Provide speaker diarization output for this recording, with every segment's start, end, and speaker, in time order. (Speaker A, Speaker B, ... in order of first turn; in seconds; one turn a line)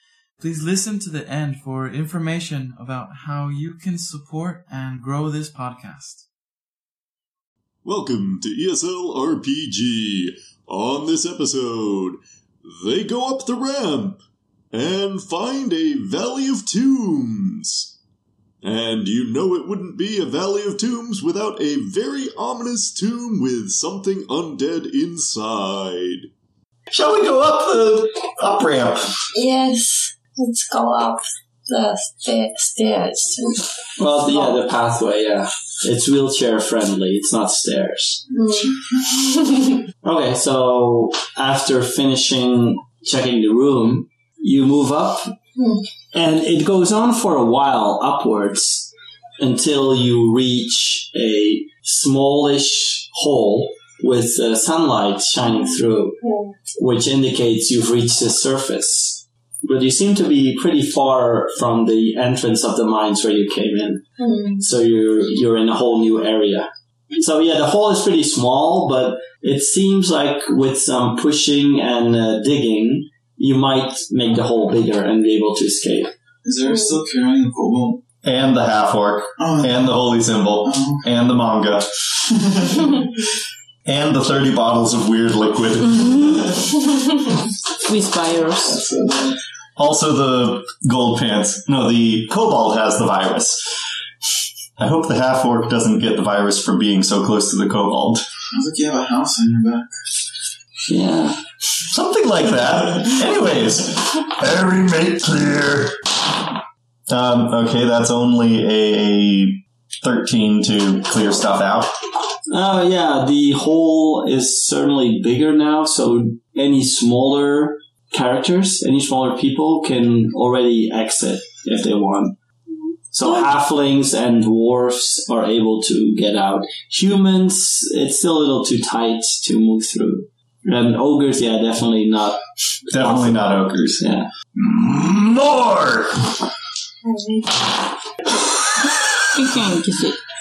Speaker A: 0.4-6.2
Speaker B: 7.8-17.9
Speaker B: 18.6-26.3
Speaker C: 26.9-29.1
Speaker D: 29.3-33.6
Speaker E: 34.0-38.2
Speaker D: 34.3-34.5
Speaker D: 38.3-39.7
Speaker F: 38.5-39.0
Speaker E: 40.0-45.3
Speaker D: 45.5-45.8
Speaker E: 46.1-56.2
Speaker D: 56.2-56.6
Speaker E: 56.8-64.0
Speaker D: 64.2-64.7
Speaker E: 64.6-76.1
Speaker F: 76.4-78.0
Speaker D: 76.7-77.0
Speaker C: 78.2-81.9
Speaker F: 79.4-79.9
Speaker F: 80.6-81.0
Speaker F: 82.3-83.0
Speaker C: 83.8-86.5
Speaker G: 85.8-86.5
Speaker G: 87.8-88.8
Speaker F: 88.6-89.4
Speaker C: 89.8-93.6
Speaker C: 94.8-98.2
Speaker F: 98.5-99.9
Speaker E: 100.9-101.4
Speaker C: 101.9-104.0
Speaker B: 104.2-106.0
Speaker C: 107.1-111.9
Speaker E: 112.5-122.3
Speaker E: 123.1-132.4
Speaker C: 132.9-134.1
Speaker E: 132.9-134.3
Speaker B: 134.6-136.1
Speaker D: 137.0-137.7
Speaker G: 139.3-140.2